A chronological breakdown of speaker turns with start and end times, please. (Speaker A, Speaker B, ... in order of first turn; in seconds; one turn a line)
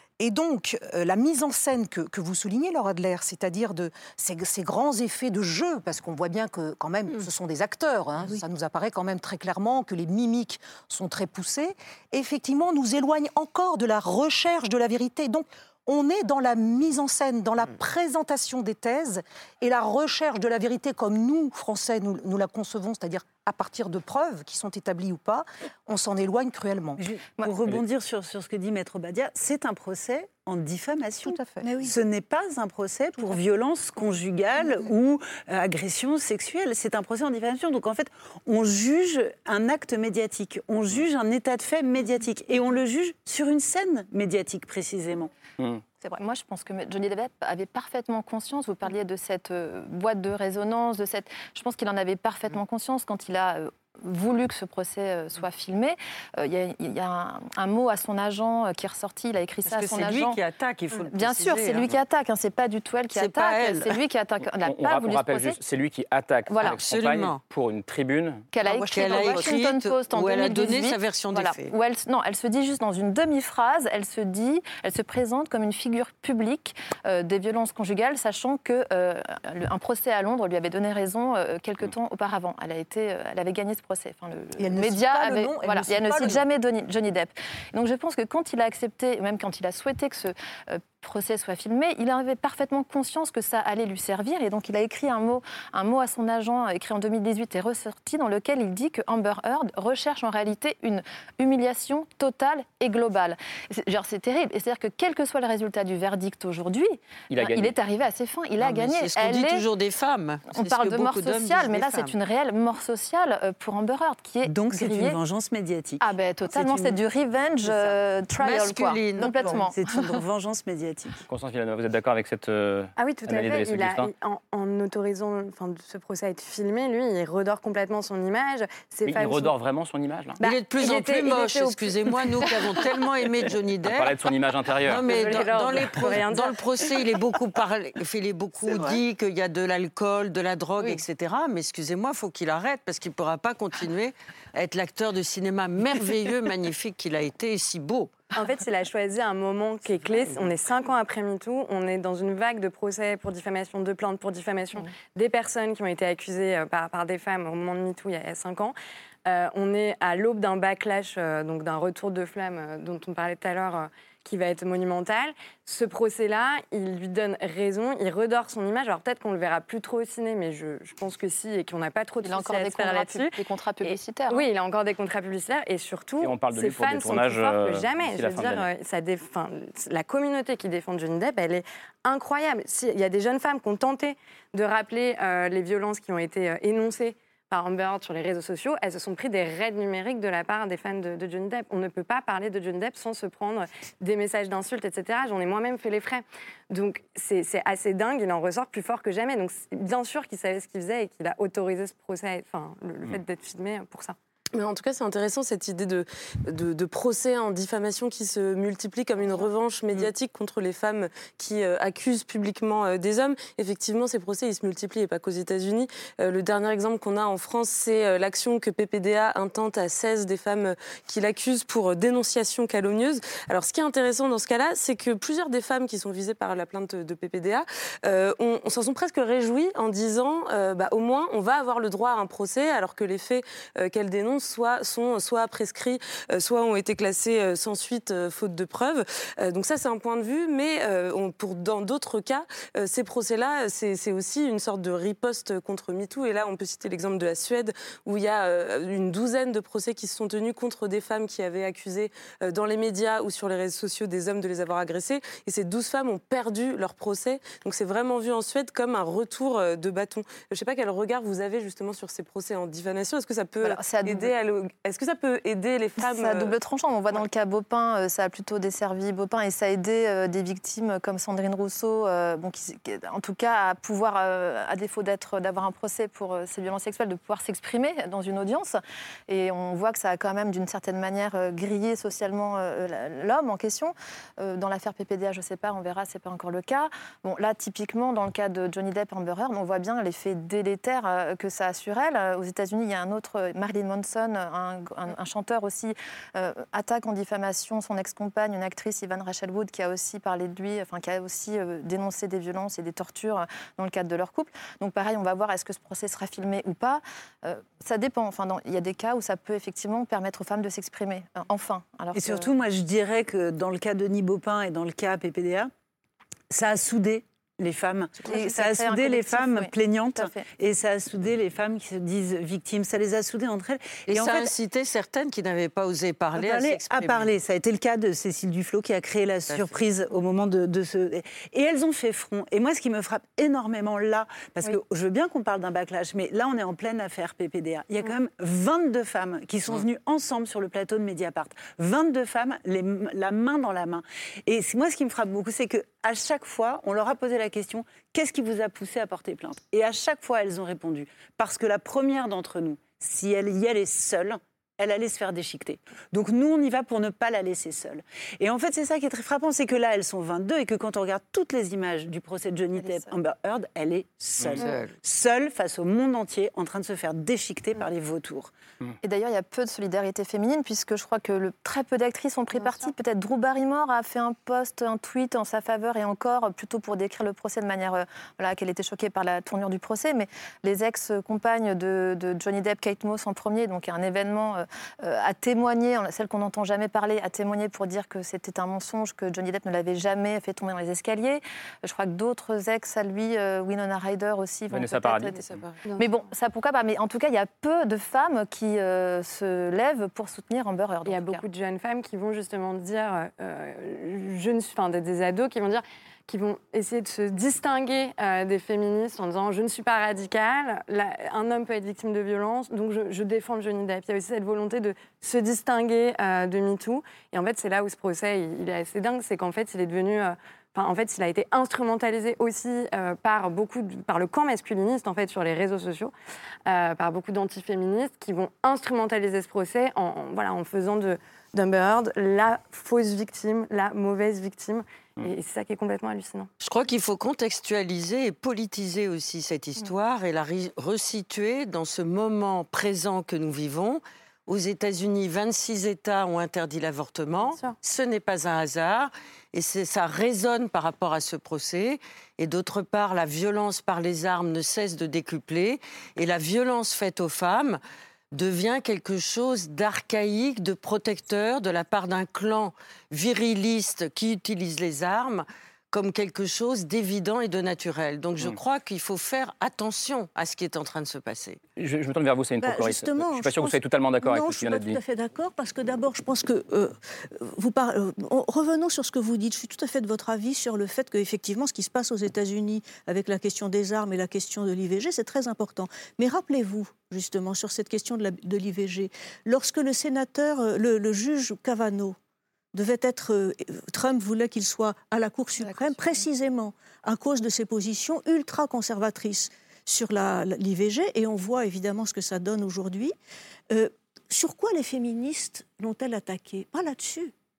Speaker A: 0.2-27.0
Speaker B: 27.0-45.3
Speaker A: 31.2-31.7
Speaker C: 31.6-31.9
Speaker D: 46.0-60.4
Speaker E: 59.6-61.9
Speaker D: 61.0-65.6
Speaker E: 63.1-64.0
Speaker F: 64.6-68.5
Speaker D: 66.5-66.8
Speaker E: 66.6-67.4
Speaker D: 68.5-109.6
Speaker A: 68.6-69.5
Speaker E: 68.9-71.7
Speaker A: 84.6-86.4
Speaker F: 107.3-107.7
Speaker E: 108.6-112.1
Speaker D: 110.5-115.2
Speaker B: 114.4-117.0
Speaker D: 116.0-120.2
Speaker E: 118.3-119.6
Speaker B: 119.2-121.2
Speaker F: 121.3-124.1
Speaker G: 123.0-129.5
Speaker F: 129.1-130.4
Speaker E: 130.4-134.2
Speaker G: 130.4-132.9
Speaker F: 133.8-135.1
Speaker E: 134.8-148.2
Speaker G: 135.0-136.6
Speaker G: 148.3-158.7
Speaker G: 159.2-204.2
Speaker D: 172.2-174.5
Speaker F: 176.2-178.7
Speaker H: 204.5-266.5
Speaker D: 263.6-264.3
Speaker D: 266.0-312.5
Speaker B: 312.1-315.7
Speaker B: 316.5-324.5
Speaker D: 318.3-320.4
Speaker E: 324.1-327.3
Speaker B: 326.4-368.5
Speaker E: 329.5-329.8
Speaker D: 362.8-363.1
Speaker E: 364.6-364.9
Speaker D: 369.0-401.4
Speaker F: 394.7-395.6
Speaker G: 395.8-396.1
Speaker G: 401.1-426.1
Speaker G: 426.6-436.5
Speaker E: 436.6-457.8
Speaker G: 447.5-447.8
Speaker E: 458.3-471.6
Speaker F: 471.8-475.0
Speaker C: 472.6-492.2
Speaker C: 492.7-503.1
Speaker C: 503.7-507.3